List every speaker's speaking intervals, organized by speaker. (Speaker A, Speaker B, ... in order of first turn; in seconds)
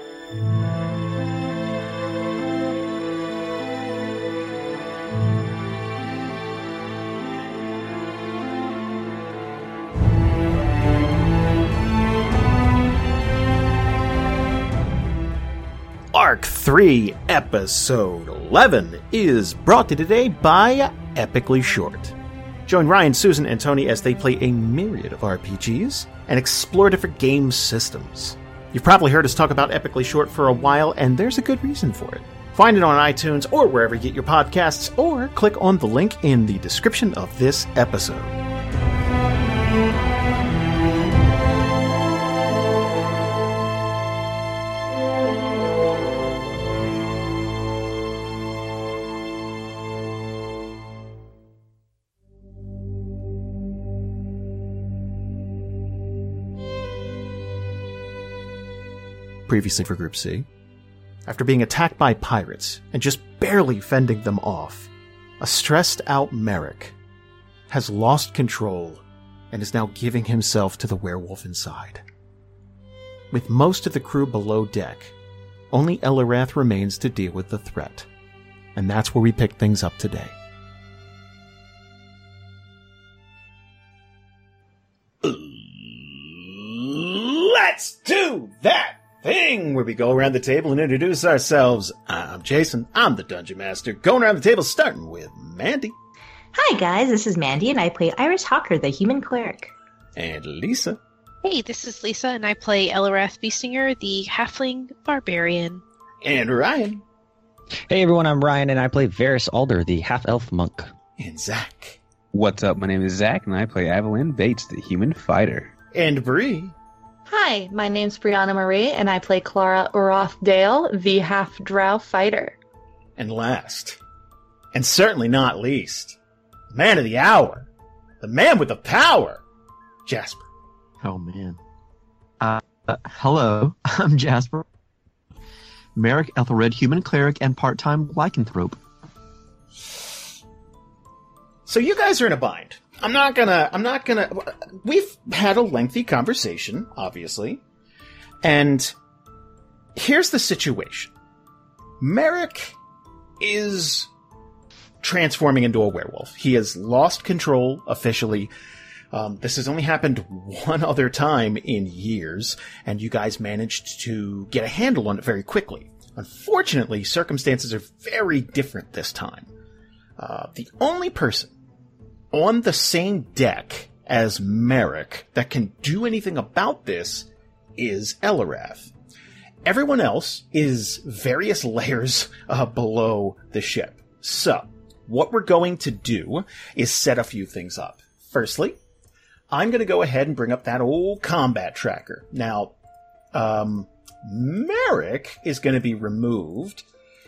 Speaker A: 16.1-38.4, 59.5-60.5, 61.2-64.9, 65.4-66.9, 67.7-72.0, 73.3-75.1, 75.7-78.1, 78.7-80.3, 85.2-95.9, 100.2-101.0, 106.2-107.0, 111.2-112.0, 115.9-116.7, 123.2-124.0, 124.7-126.2, 126.7-127.7, 128.2-129.4, 130.1-130.5, 141.7-147.6, 148.4-148.9, 149.9-151.1, 152.0-152.8, 153.4-154.1, 155.0-158.5, 159.1-169.5, 170.2-171.5, 172.3-178.9, 179.6-188.8, 189.5-192.7, 193.3-196.8
Speaker B: 96.5-99.7
Speaker C: 101.4-105.8
Speaker D: 107.9-110.9
Speaker E: 112.3-115.7
Speaker F: 117.3-122.5
Speaker G: 131.0-131.6, 132.4-134.6, 135.9-138.8